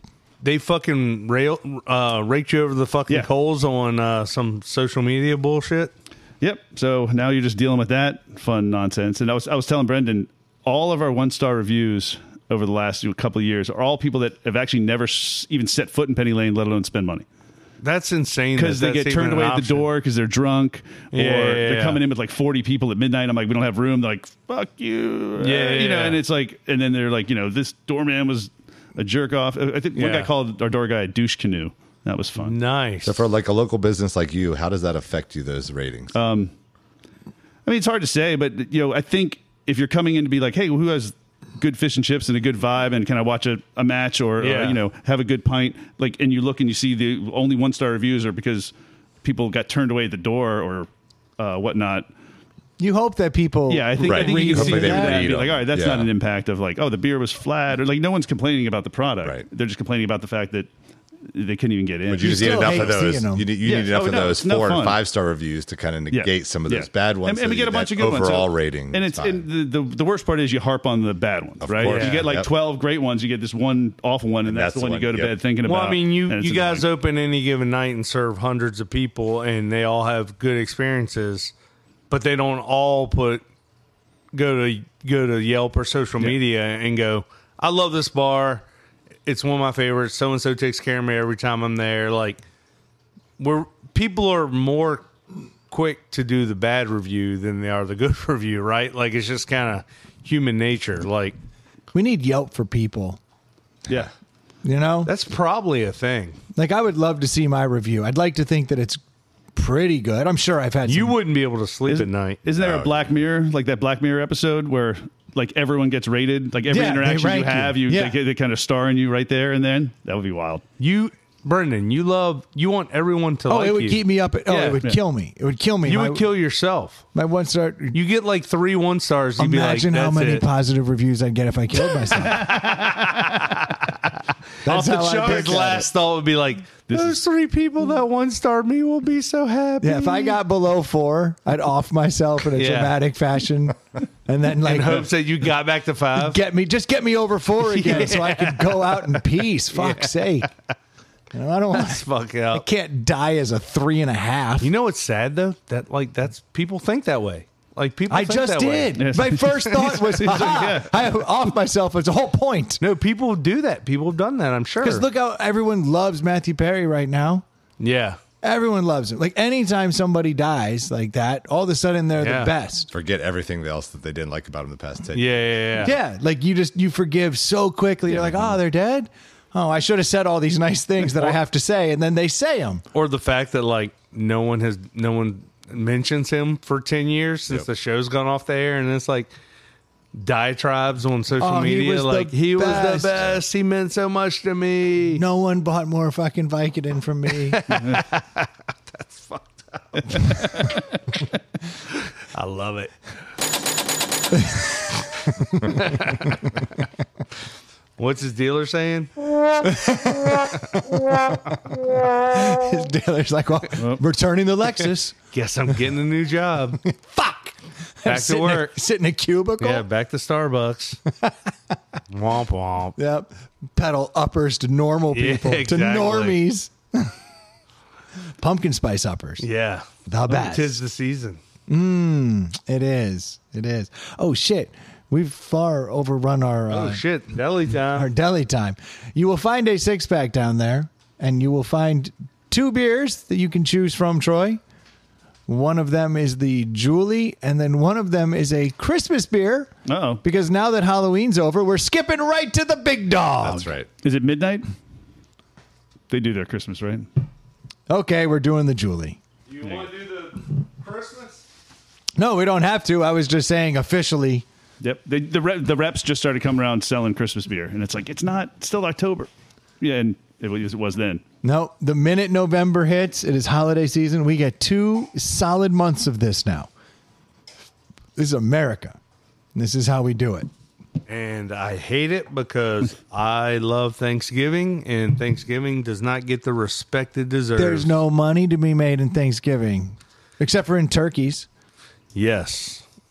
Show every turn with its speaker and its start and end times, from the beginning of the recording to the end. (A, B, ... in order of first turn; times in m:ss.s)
0:00.4-0:05.9 A
0:06.4-0:17.3 B
0:17.8-0:19.9 A
0:18.6-0:32.6 B
0:21.1-0:22.0 A
0:25.4-0:26.2 A
0:29.9-0:30.3 A
0:32.4-0:33.2 A
0:33.0-0:36.1 C
0:36.1-0:36.5 B
0:37.7-0:48.7 B
0:44.4-0:44.8 A
0:49.2-0:52.1 B
0:52.8-0:55.4 D
0:53.7-1:00.7 B
0:54.1-0:56.1 C
1:01.3-1:03.0 B
1:02.1-1:09.4 C
1:02.2-1:03.5 D
1:03.6-1:05.0 B
1:06.1-1:16.8 B
1:11.6-1:12.5 C
1:11.8-1:12.3 A
1:14.4-1:15.4 C
1:15.6-1:21.5 A
1:22.1-1:23.4 A
1:24.3-1:28.6 A
1:29.3-1:32.4 A
1:33.4-1:35.1 A
1:35.7-1:41.4 A
1:41.9-1:43.2 D
1:44.6-1:45.1 D
1:45.0-1:46.4 A
1:46.5-1:49.0 D
1:49.5-1:51.2 D
1:50.9-1:52.4 A
1:51.9-2:00.6 B
1:52.6-1:53.2 C
1:56.7-1:58.2 D
2:00.8-2:04.8 A
2:03.5-2:06.3 D
2:05.9-2:07.0 A
2:07.1-2:08.0 D
2:07.9-2:10.5 A
2:09.4-2:12.4 D
2:12.0-2:20.4 A
2:12.3-2:13.6 B
2:14.6-2:15.9 D
2:16.9-2:17.2 B
2:19.8-2:25.1 D
2:22.5-2:23.0 A
2:24.6-2:26.4 A
2:26.2-2:30.5 D
2:27.7-2:30.1 A
2:31.3-2:34.7 D
2:31.7-2:32.7 A
2:34.6-2:40.6 A
2:38.1-2:42.8 D
2:39.0-2:40.9 B
2:42.8-2:45.0 A
2:44.8-2:47.4 D
2:47.8-2:48.2 A
2:48.4-2:52.9 D
2:52.2-2:52.5 A
2:52.9-2:55.5 C
2:55.2-2:56.0 A
2:55.8-3:02.8 D
2:58.1-2:58.6 C
3:02.9-3:09.3 A
3:10.1-3:15.2 A
3:11.4-3:13.3 D
3:15.1-3:17.6 D
3:17.5-3:20.9 A
3:17.7-3:18.0 B
3:21.9-3:23.1 A
3:24.3-3:26.2 D
3:25.7-3:26.5 A
3:28.0-3:29.1 A
3:29.6-3:31.4 D
3:31.9-3:35.2 D
3:35.3-3:36.8 A
3:36.8-3:39.8 D
3:38.1-3:38.7 A
3:39.6-3:41.0 A
3:41.1-3:41.5 D
3:42.1-3:43.0 A
3:43.0-3:47.2 D
3:45.1-3:46.4 A
3:48.4-3:49.4 D
3:49.4-3:51.4 A
3:50.1-3:50.8 D
3:51.7-3:57.0 D
3:56.7-3:58.1 A
3:57.9-4:04.6 D
4:05.5-4:09.7 D
4:09.9-4:10.2 B
4:10.2-4:13.7 D
4:13.4-4:13.9 C
4:14.0-4:14.7 B
4:16.1-4:17.1 B
4:17.9-4:19.2 D
4:19.5-4:21.4 A
4:22.2-4:24.5 D
4:24.8-4:29.3 B
4:29.8-4:31.2 B
4:31.4-4:36.7 D
4:38.2-4:39.0 D
4:39.6-4:40.5 D
4:41.1-4:48.0 A
4:47.6-4:51.5 D
4:52.1-4:52.8 A